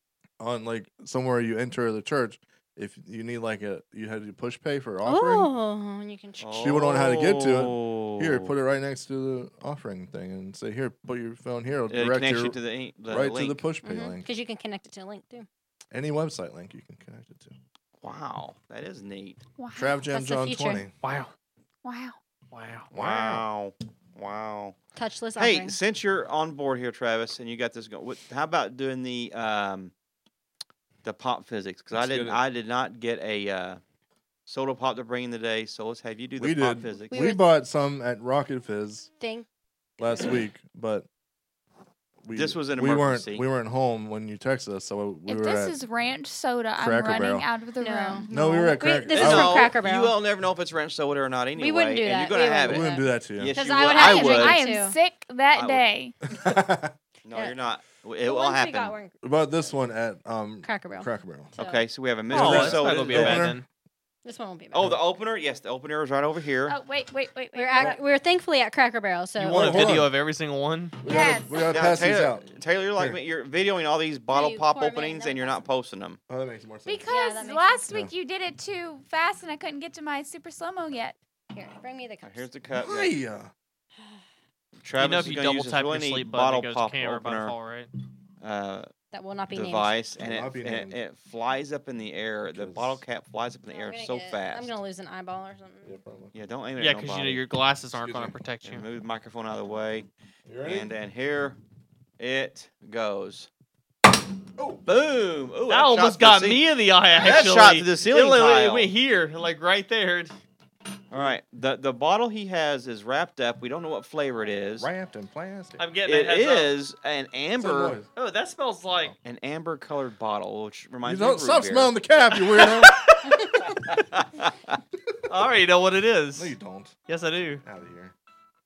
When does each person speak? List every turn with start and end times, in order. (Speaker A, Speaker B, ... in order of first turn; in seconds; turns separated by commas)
Speaker A: 0.4-5.5, Speaker B: 5.0-6.9, Speaker C: 6.4-8.5, Speaker A: 6.6-14.2, Speaker C: 11.9-13.6, Speaker B: 13.8-15.5, Speaker A: 15.9-17.5, Speaker C: 18.0-19.4, Speaker D: 19.6-20.0, Speaker A: 19.7-20.9, Speaker B: 20.1-20.8, Speaker E: 21.0-21.3, Speaker D: 21.8-22.2, Speaker E: 22.5-22.9, Speaker A: 22.9-23.4, Speaker C: 22.9-24.8, Speaker B: 24.9-25.8, Speaker C: 25.4-29.9, Speaker C: 31.0-33.8, Speaker A: 31.9-32.4, Speaker C: 34.5-37.3, Speaker A: 36.4-39.1, Speaker B: 37.1-37.5, Speaker B: 39.2-39.5, Speaker A: 40.0-41.1, Speaker B: 40.0-40.3, Speaker A: 42.2-45.7, Speaker C: 42.3-43.4, Speaker D: 45.2-48.7, Speaker A: 46.8-47.5, Speaker B: 47.8-50.1, Speaker A: 48.3-49.7, Speaker C: 49.1-54.6, Speaker B: 51.5-55.0, Speaker A: 52.6-53.6, Speaker D: 53.9-56.2, Speaker C: 55.5-55.8, Speaker A: 56.3-56.9, Speaker C: 57.3-58.9, Speaker B: 57.3-57.6, Speaker B: 58.2-59.7, Speaker A: 59.2-61.5, Speaker B: 60.6-61.8, Speaker C: 61.6-63.5, Speaker E: 62.3-63.6, Speaker A: 62.3-63.6, Speaker B: 64.2-64.9, Speaker C: 64.7-66.8, Speaker D: 66.7-68.0, Speaker B: 67.5-69.9, Speaker A: 69.4-70.1, Speaker E: 69.5-71.0, Speaker D: 71.0-71.7, Speaker A: 71.0-73.2, Speaker C: 71.7-76.2, Speaker B: 74.3-75.6, Speaker A: 76.3-77.1, Speaker D: 76.8-81.2, Speaker B: 77.1-77.9, Speaker B: 81.5-82.5, Speaker C: 82.2-83.2, Speaker A: 82.7-83.5, Speaker C: 84.8-87.5, Speaker E: 85.0-87.9, Speaker C: 88.4-88.9, Speaker B: 89.1-89.9, Speaker C: 89.5-94.7, Speaker A: 90.2-91.0, Speaker A: 92.5-93.0, Speaker B: 93.7-96.0, Speaker A: 95.8-96.3, Speaker C: 96.3-97.4, Speaker E: 96.8-98.8, Speaker A: 97.9-98.4, Speaker C: 98.6-100.1, Speaker A: 100.5-100.9, Speaker C: 100.6-101.6, Speaker C: 102.2-103.5, Speaker A: 104.6-104.8, Speaker C: 104.8-106.6, Speaker E: 105.7-110.3, Speaker C: 107.2-108.9, Speaker C: 111.1-114.9, Speaker A: 114.8-115.8, Speaker E: 115.8-116.7, Speaker C: 116.0-118.0, Speaker A: 117.6-118.1, Speaker E: 118.1-119.2, Speaker C: 119.2-121.9, Speaker A: 121.0-123.0, Speaker E: 122.3-124.0, Speaker C: 123.7-124.8, Speaker E: 125.3-126.5, Speaker A: 126.3-127.0, Speaker E: 127.1-127.6, Speaker A: 127.6-128.1